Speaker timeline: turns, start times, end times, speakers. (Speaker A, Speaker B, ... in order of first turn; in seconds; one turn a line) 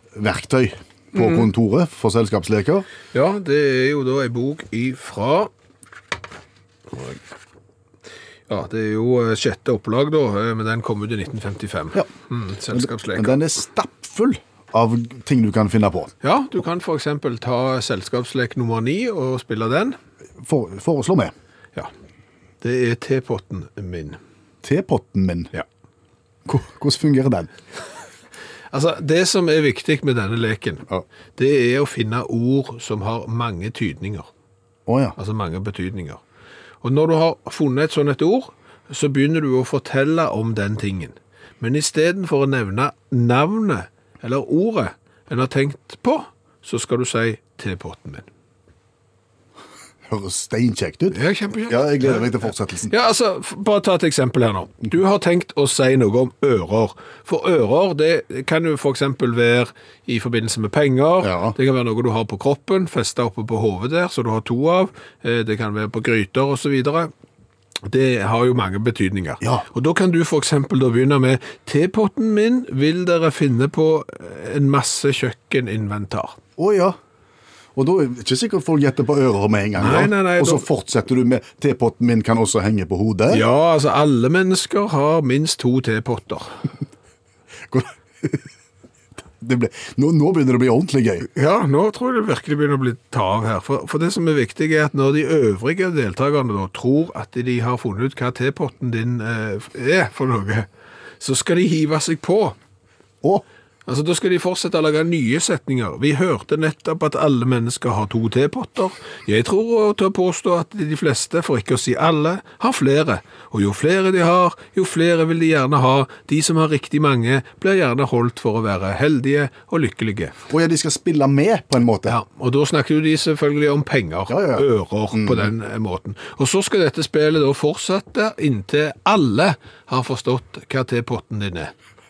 Speaker A: 0.1-2.9
Speaker B: 1.2-1.5
Speaker B: 3.1-5.5
Speaker B: 6.9-7.2
Speaker B: 8.5-13.4
Speaker A: 12.7-16.1
Speaker B: 16.2-20.0
Speaker A: 20.4-21.3
Speaker B: 22.6-24.2
Speaker A: 24.6-25.5
Speaker A: 26.5-27.5
Speaker B: 28.7-30.9
Speaker B: 31.4-34.3
Speaker A: 34.9-35.1
Speaker B: 35.2-36.2
Speaker B: 36.8-48.3
Speaker A: 50.1-52.9
Speaker B: 51.1-52.4
Speaker B: 52.9-67.1
Speaker A: 61.2-61.6
Speaker B: 67.9-76.4
Speaker A: 76.6-77.0
Speaker A: 77.8-83.4
Speaker B: 79.8-80.7
Speaker B: 83.3-86.6
Speaker A: 87.7-88.5
Speaker A: 89.4-91.3
Speaker B: 91.3-100.7
Speaker B: 101.2-102.6
Speaker B: 103.9-120.3
Speaker A: 120.5-122.2
Speaker B: 122.1-131.7
Speaker A: 124.3-125.5